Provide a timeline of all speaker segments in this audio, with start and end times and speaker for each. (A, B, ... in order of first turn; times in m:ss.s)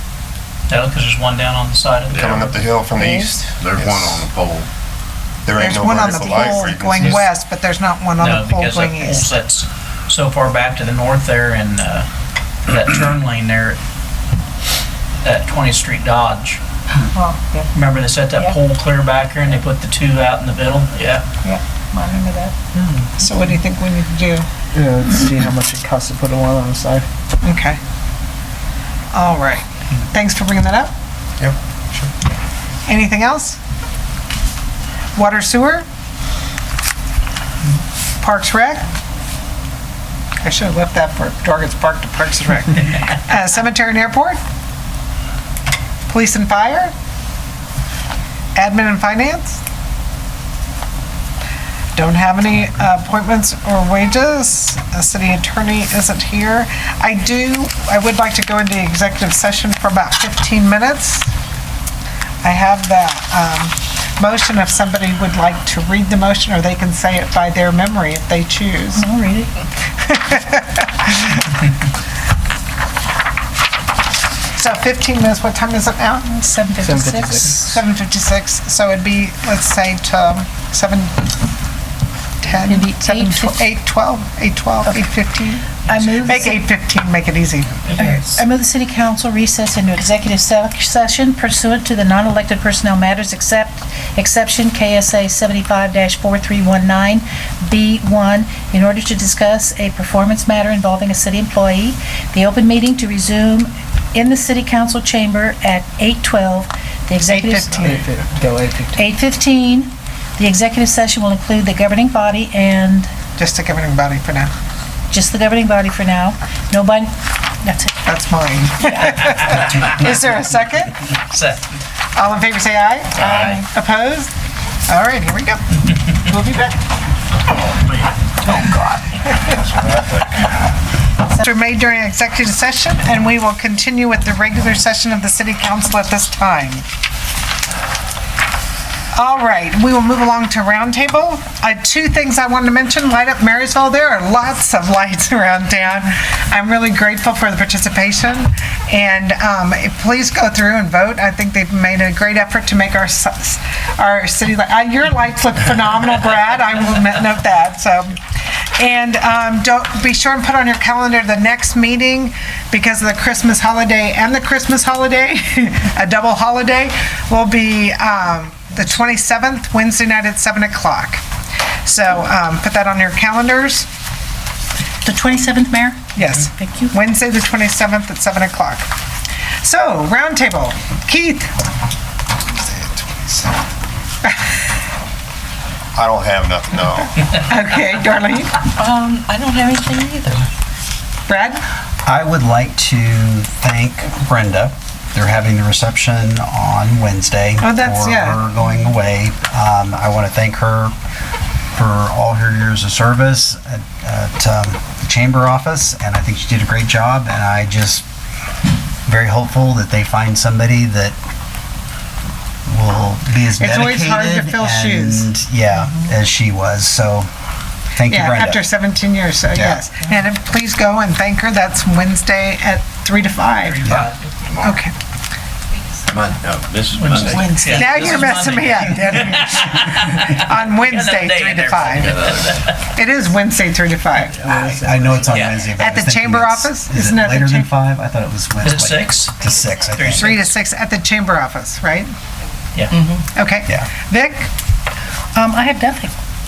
0:00.7-0:02.6 A
0:02.1-0:02.5 B
0:02.1-0:04.3 C
0:03.0-0:04.7 B
0:03.0-0:03.3 D
0:05.5-0:07.3 C
0:05.6-0:09.3 E
0:06.4-0:06.6 D
0:08.2-0:12.1 A
0:12.7-0:13.8 A
0:15.2-0:16.6 A
0:17.1-0:17.7 D
0:17.7-0:21.2 A
0:21.4-0:22.6 D
0:23.2-0:24.5 E
0:24.8-0:27.1 F
0:27.4-0:27.8 E
0:29.1-0:30.9 E
0:31.4-0:32.1 C
0:32.9-0:33.6 E
0:35.2-0:35.9 E
0:38.2-0:38.9 E
0:40.4-0:44.4 E
0:46.1-0:46.9 E
0:48.6-0:49.6 E
0:52.0-1:01.3 E
1:02.4-1:09.0 E
1:09.0-1:09.5 D
1:10.0-1:11.3 E
1:14.6-1:16.4 E
1:16.3-1:17.8 D
1:16.8-1:17.6 F
1:17.4-1:21.3 E
1:22.4-1:28.2 E
1:22.6-1:23.7 D
1:24.8-1:25.1 D
1:25.8-1:26.6 D
1:25.9-1:26.3 A
1:28.0-1:48.0 D
1:47.2-1:48.1 E
1:47.8-1:49.0 F
1:48.9-1:53.1 D
1:53.4-1:54.5 E
1:55.1-1:57.9 D
1:58.1-2:01.1 E
2:01.3-2:01.6 A
2:02.2-2:04.3 E
2:03.2-2:03.6 A
2:04.9-2:06.8 E
2:09.4-2:10.4 C
2:11.4-2:16.8 E
2:19.2-2:38.2 E
2:38.8-2:51.2 E
2:51.8-2:53.9 E
2:55.0-2:57.0 D
2:56.2-2:58.9 E
2:59.6-3:01.5 E
3:02.6-3:03.5 C
3:06.0-3:07.2 C
3:07.4-3:08.6 E
3:08.8-3:10.5 G
3:11.3-3:11.6 E
3:12.1-3:20.9 H
3:17.6-3:18.4 E
3:21.7-3:28.1 H
3:29.1-3:31.2 H
3:32.7-3:37.3 H
3:33.6-3:35.3 E
3:38.0-3:38.7 H
3:38.1-3:43.9 E
3:39.5-3:39.8 H
3:43.6-3:44.3 A
3:44.5-3:44.8 B
3:44.6-3:44.9 E
3:46.1-3:48.2 B
3:46.9-3:52.8 A
3:47.3-3:52.2 E
3:51.9-3:52.6 B
3:52.9-3:54.9 E
3:54.4-3:55.3 F
3:54.6-4:00.4 H
3:55.3-3:55.7 A
3:55.6-3:57.7 E
3:58.6-4:00.4 A
4:00.2-4:02.1 E
4:03.0-4:03.2 G
4:03.3-4:04.5 E
4:05.4-4:06.2 D